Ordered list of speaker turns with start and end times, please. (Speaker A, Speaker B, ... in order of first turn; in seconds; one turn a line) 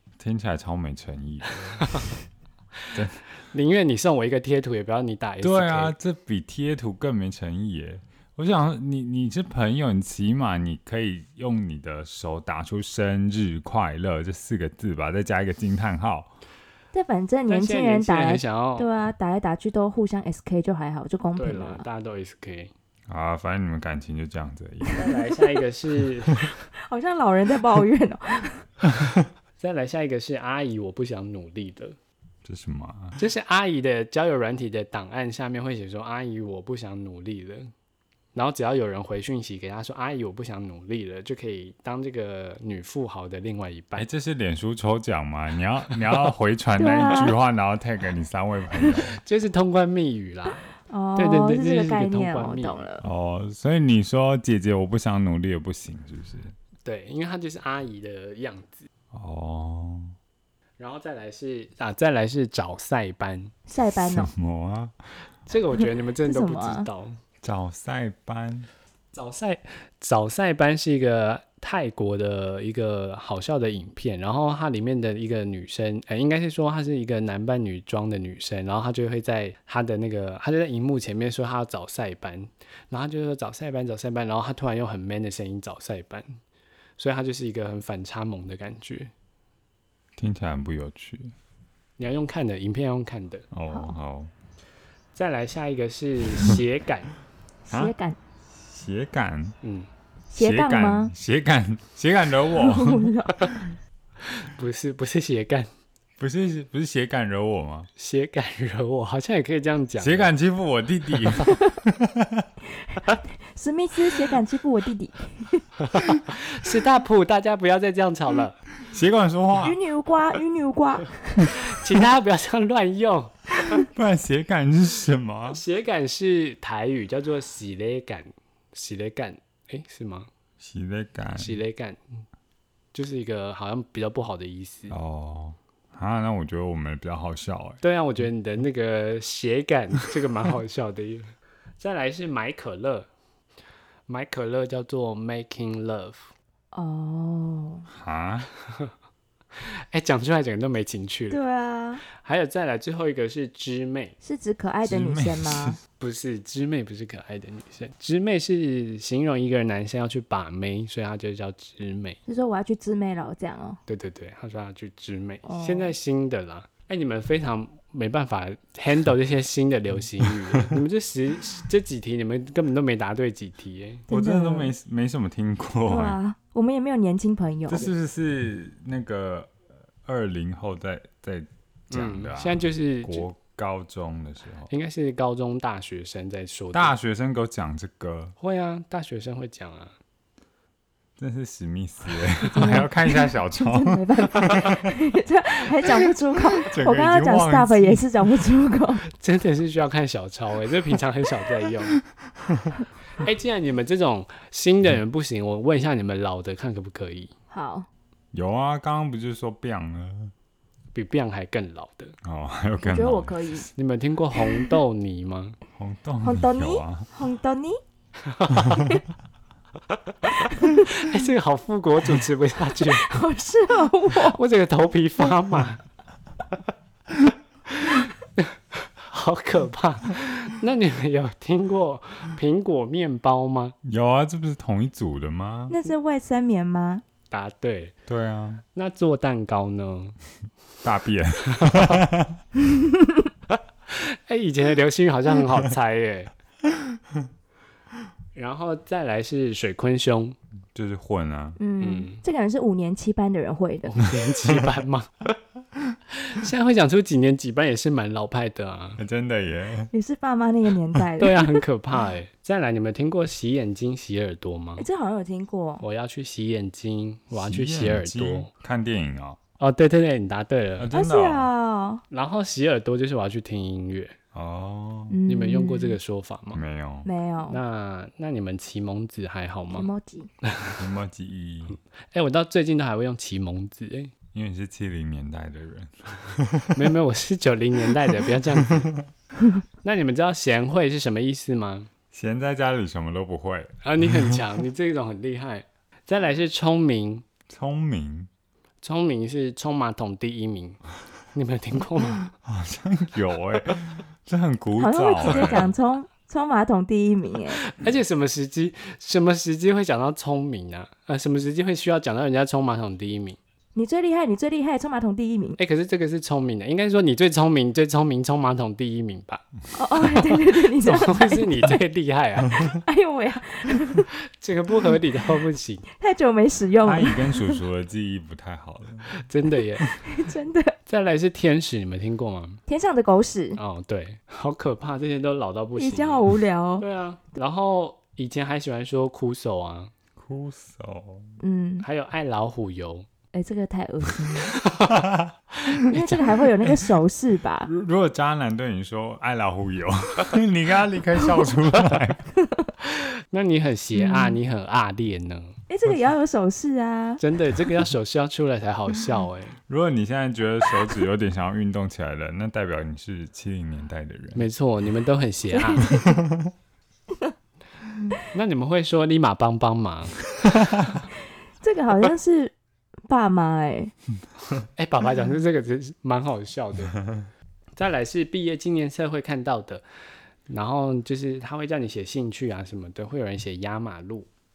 Speaker A: 0.2-2.0
Speaker A: 2.9-3.2
Speaker B: 3.4-5.9
Speaker A: 5.4-16.3
Speaker C: 16.9-21.8
Speaker B: 17.5-18.9
Speaker B: 21.4-22.7
Speaker A: 23.1-25.0
Speaker B: 24.9-26.6
Speaker C: 26.8-28.7
Speaker B: 29.6-31.9
Speaker A: 32.4-33.2
Speaker B: 33.1-37.7
Speaker B: 38.3-44.0
Speaker A: 44.0-49.2
Speaker C: 46.8-47.3
Speaker B: 49.1-50.6
Speaker C: 50.9-53.0
Speaker B: 51.1-52.8
Speaker A: 53.0-56.5
Speaker B: 56.8-58.9
Speaker A: 59.1-60.1
Speaker B: 60.8-63.5
Speaker C: 63.7-64.3
Speaker A: 64.0-64.9
Speaker B: 65.5-67.2
Speaker C: 66.2-66.9
Speaker A: 67.4-68.7
Speaker B: 69.1-86.4
Speaker B: 87.0-89.1
Speaker A: 90.2-91.3
Speaker B: 92.0-93.5
Speaker A: 93.5-94.3
Speaker C: 93.7-94.0
Speaker B: 95.1-97.1
Speaker C: 97.7-98.2
Speaker A: 98.5-99.5
Speaker B: 99.6-99.9
Speaker C: 100.3-101.1
Speaker A: 100.3-103.1
Speaker C: 102.5-103.7
Speaker B: 104.2-105.7
Speaker A: 106.2-107.9
Speaker B: 108.0-110.3
Speaker A: 110.0-112.5
Speaker C: 112.9-115.7
Speaker B: 115.9-118.6
Speaker A: 118.8-119.8
Speaker C: 119.6-121.5
Speaker B: 121.5-123.8
Speaker A: 123.7-125.6
Speaker B: 125.5-130.3
Speaker A: 130.6-131.6
Speaker B: 131.3-132.2
Speaker B: 132.9-135.0
Speaker A: 134.9-137.8
Speaker B: 137.8-143.1
Speaker B: 144.1-146.3
Speaker C: 146.7-147.9
Speaker A: 147.9-148.5
Speaker B: 148.6-148.9
Speaker B: 149.6-151.4
Speaker C: 151.3-152.0
Speaker B: 152.1-154.2
Speaker C: 154.2-155.8
Speaker A: 154.8-155.8
Speaker B: 156.0-162.2
Speaker C: 162.3-163.8
Speaker B: 163.9-174.1
Speaker C: 165.4-165.9
Speaker C: 174.1-174.7
Speaker A: 174.1-176.2
Speaker C: 175.9-177.8
Speaker A: 177.7-184.7
Speaker B: 181.9-183.2
Speaker B: 184.7-186.9
Speaker A: 186.7-188.3
Speaker B: 188.4-189.9
Speaker A: 191.2-194.9
Speaker C: 192.4-199.0
Speaker A: 196.6-198.1
Speaker B: 199.1-202.0
Speaker A: 202.4-202.7
Speaker B: 203.2-207.3
Speaker C: 207.5-207.9
Speaker A: 208.3-210.3
Speaker B: 210.9-212.2
Speaker A: 212.2-213.7
Speaker C: 212.8-213.7
Speaker B: 213.8-215.6
Speaker A: 215.8-217.1
Speaker C: 216.2-217.8
Speaker B: 218.2-218.8
Speaker A: 218.5-219.0
Speaker B: 219.9-223.1
Speaker C: 222.7-224.4
Speaker B: 224.2-225.8
Speaker B: 227.7-233.7
Speaker A: 233.8-235.8
Speaker C: 235.7-237.0
Speaker B: 237.3-237.9
Speaker A: 238.1-238.6
Speaker B: 238.7-240.2
Speaker A: 240.8-242.4
Speaker B: 241.5-241.9
Speaker C: 242.7-243.2
Speaker B: 243.9-246.3
Speaker B: 248.3-250.4
Speaker A: 250.7-251.6
Speaker C: 251.6-254.0
Speaker B: 251.8-252.2
Speaker B: 253.9-255.3
Speaker B: 256.1-259.0
Speaker A: 259.0-259.9
Speaker C: 259.9-261.6
Speaker B: 261.2-264.9
Speaker C: 264.8-265.8
Speaker B: 265.8-268.5
Speaker A: 267.3-269.4
Speaker B: 269.6-270.9
Speaker A: 270.8-271.5
Speaker C: 270.9-272.0
Speaker B: 272.1-274.1
Speaker A: 274.3-275.1
Speaker C: 275.1-276.0
Speaker B: 275.3-276.6
Speaker A: 276.5-277.1
Speaker C: 277.0-277.6
Speaker B: 277.5-279.9
Speaker C: 279.7-280.3
Speaker A: 280.8-281.8
Speaker B: 282.1-284.1
Speaker A: 284.3-286.9
Speaker B: 286.7-288.9
Speaker A: 288.6-289.1
Speaker B: 289.8-291.9
Speaker A: 292.1-294.4
Speaker B: 293.8-297.2
Speaker A: 297.5-298.3
Speaker B: 298.8-300.8
Speaker B: 301.3-302.3
Speaker A: 302.4-305.7
Speaker C: 304.8-307.6
Speaker B: 307.5-313.4
Speaker C: 313.7-315.6
Speaker B: 315.6-319.4
Speaker C: 319.7-321.8
Speaker B: 320.0-322.6
Speaker C: 322.5-324.1
Speaker B: 324.3-325.9
Speaker C: 325.9-327.6
Speaker A: 326.8-329.1
Speaker B: 329.1-330.0
Speaker C: 330.0-330.8
Speaker B: 330.9-332.6
Speaker C: 332.7-333.6
Speaker B: 333.6-336.3
Speaker C: 335.8-336.8
Speaker B: 336.8-339.9
Speaker A: 340.1-341.4
Speaker C: 341.4-341.9
Speaker B: 341.8-343.1
Speaker C: 343.3-344.6
Speaker B: 344.4-345.1
Speaker A: 344.9-345.3
Speaker B: 345.6-346.3
Speaker C: 345.7-347.7
Speaker A: 347.6-352.3
Speaker B: 353.0-355.6
Speaker C: 353.9-354.4
Speaker C: 355.7-357.2
Speaker B: 357.2-359.6
Speaker A: 359.7-364.5
Speaker B: 364.3-365.9
Speaker C: 365.5-366.2
Speaker A: 365.8-366.5
Speaker B: 368.3-370.3
Speaker C: 371.6-372.5
Speaker C: 373.1-373.9
Speaker B: 374.8-377.0
Speaker A: 377.0-377.3
Speaker B: 377.8-379.8
Speaker B: 380.5-384.3